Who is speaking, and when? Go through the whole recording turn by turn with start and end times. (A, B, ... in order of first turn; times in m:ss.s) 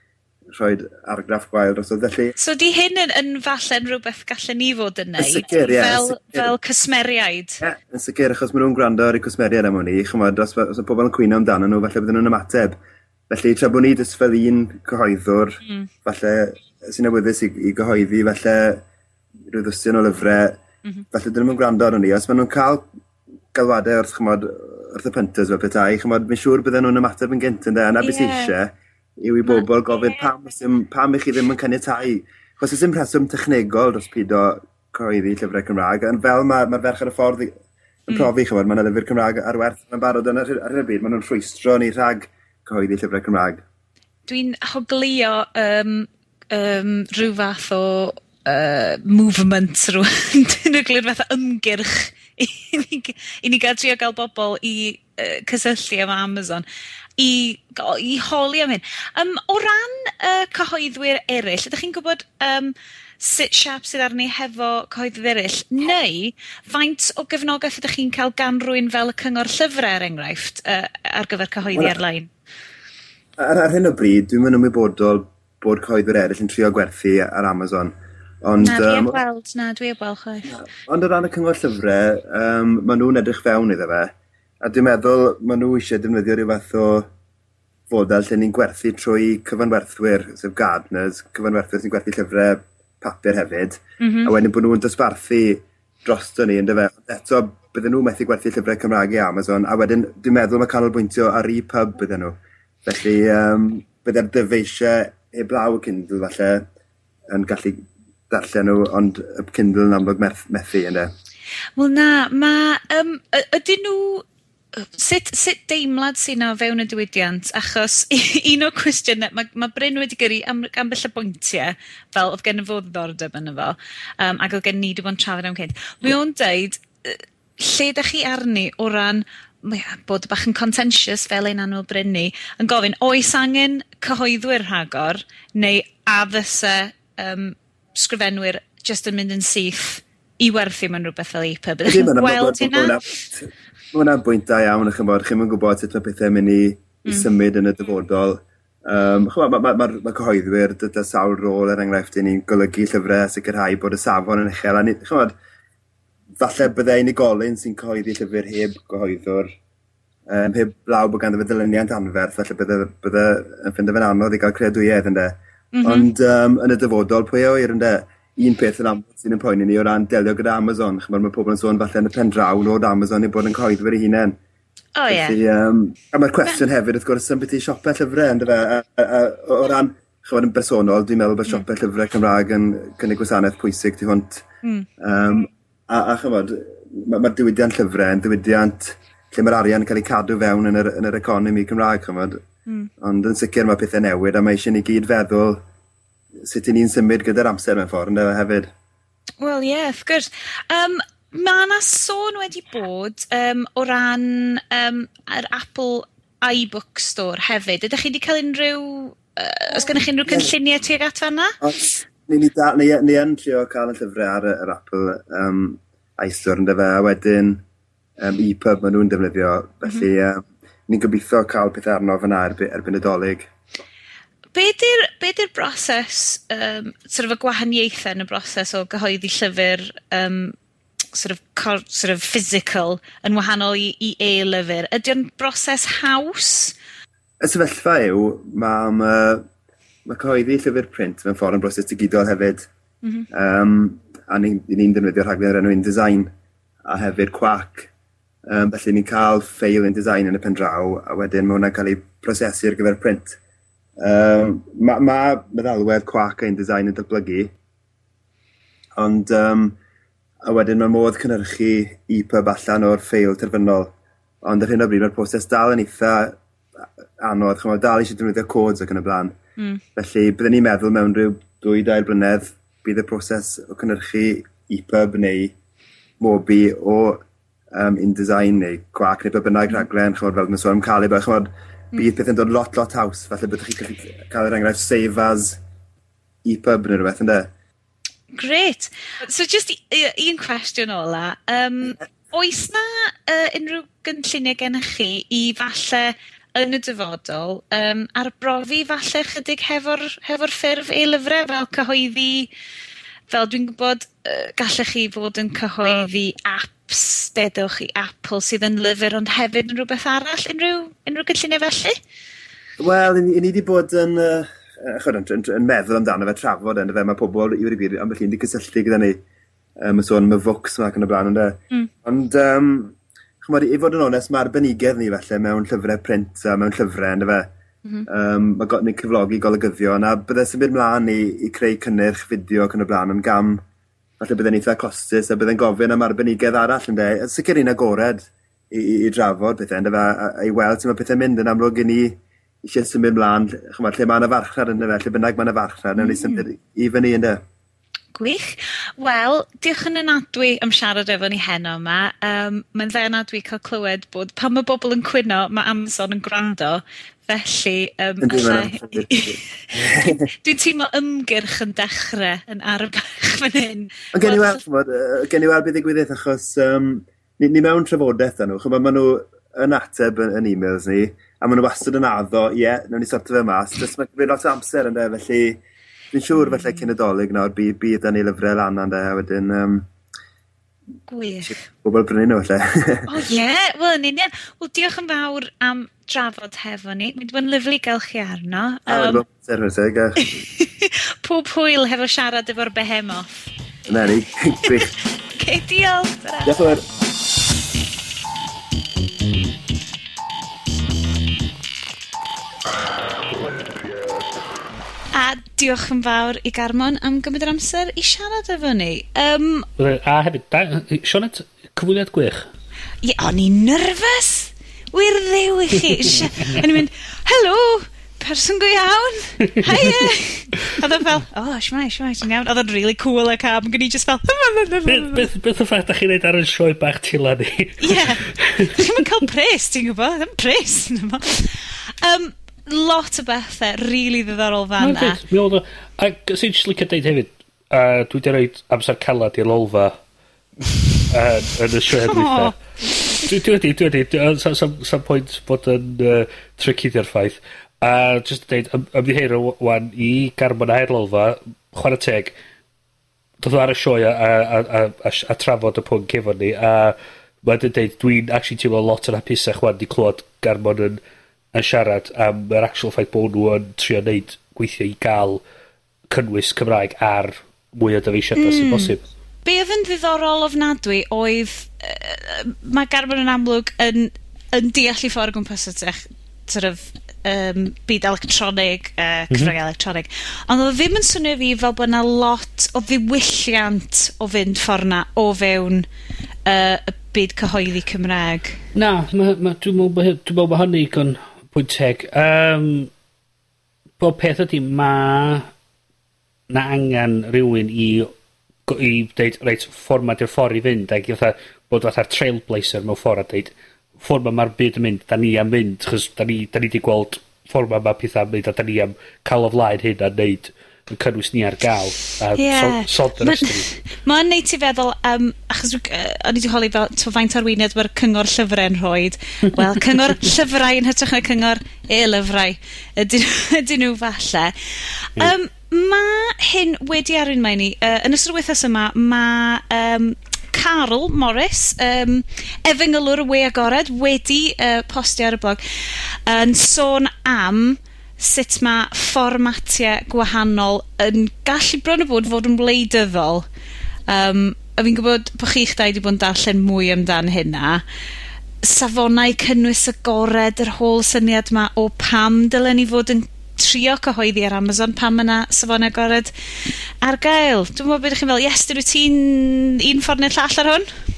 0:00.5-0:02.4 A
0:02.4-0:07.6 B
0:05.2-0:06.5 A
0:07.6-0:12.8 A
0:13.3-0:18.8 A
0:19.5-0:20.6 A
0:21.1-0:22.8 A
0:23.5-0:37.5 A
0:28.0-0:28.5 B
0:38.1-0:43.6 A
0:44.3-0:56.6 B
0:57.2-1:12.3 B
1:13.4-1:19.2 A
1:18.6-1:20.5 B
1:20.5-1:27.1 A
1:27.9-1:46.7 A
1:34.0-1:34.3 B
1:47.3-1:51.1 A
1:51.8-1:54.2 B
1:54.8-2:23.0 B
2:21.9-2:35.3 A
2:36.4-2:39.5 A
2:40.3-2:54.4 A
2:45.7-2:46.1 B
2:55.0-2:55.4 B
2:55.1-3:04.4 A
3:05.0-3:12.4 A
3:13.0-3:15.6 A
3:16.4-3:18.7 A
3:19.4-3:31.6 B
3:31.6-3:37.6 A
3:38.2-3:43.5 A
3:44.6-3:50.6 B
3:51.1-3:56.8 B
3:57.4-3:59.4 A
4:00.1-4:02.7 A
4:03.3-4:06.3 A
4:06.9-4:07.9 A
4:08.5-4:13.4 A
4:14.0-4:17.5 A
4:19.0-4:19.8 A
4:20.4-4:26.4 A
4:27.2-4:29.4 A
4:30.0-4:35.5 A
4:36.2-4:37.2 A
4:37.7-4:45.6 A
4:46.4-4:47.5 A
4:48.3-5:02.5 B
5:03.3-5:12.0 B
5:12.8-5:19.2 A
5:19.8-5:27.5 A
5:28.1-5:33.6 A
5:34.2-5:47.4 A
5:46.0-5:46.4 B
5:48.2-5:59.4 B
5:58.2-6:00.3 A
6:00.0-6:04.6 B
6:04.1-6:15.6 A
6:16.1-6:19.9 A
6:16.4-6:16.8 B
6:21.1-6:21.6 B
6:21.5-6:23.1 A
6:23.1-6:29.2 B
6:28.9-6:30.2 A
6:30.2-6:33.5 B
6:33.9-6:34.9 A
6:35.4-6:36.6 B
6:36.5-6:36.8 A
6:45.1-6:49.7 B
6:49.8-6:52.5 C
6:53.0-7:05.3 B
6:56.0-6:56.6 C
6:59.5-6:59.9 C
7:04.9-7:08.8 C
7:07.8-7:15.2 B
7:14.8-7:20.0 C
7:21.1-7:22.6 C
7:22.1-7:22.5 B
7:23.2-7:32.4 C
7:33.4-7:41.0 C
7:41.5-7:45.4 C
7:46.1-7:49.0 C
7:48.4-8:05.9 B
8:06.5-8:08.6 B
8:08.8-8:12.9 C
8:14.0-8:15.5 C
8:16.5-8:18.1 C
8:18.7-8:33.7 C
8:32.4-9:03.5 B
9:04.1-9:07.8 B
9:08.6-9:16.3 B
9:17.0-9:20.9 B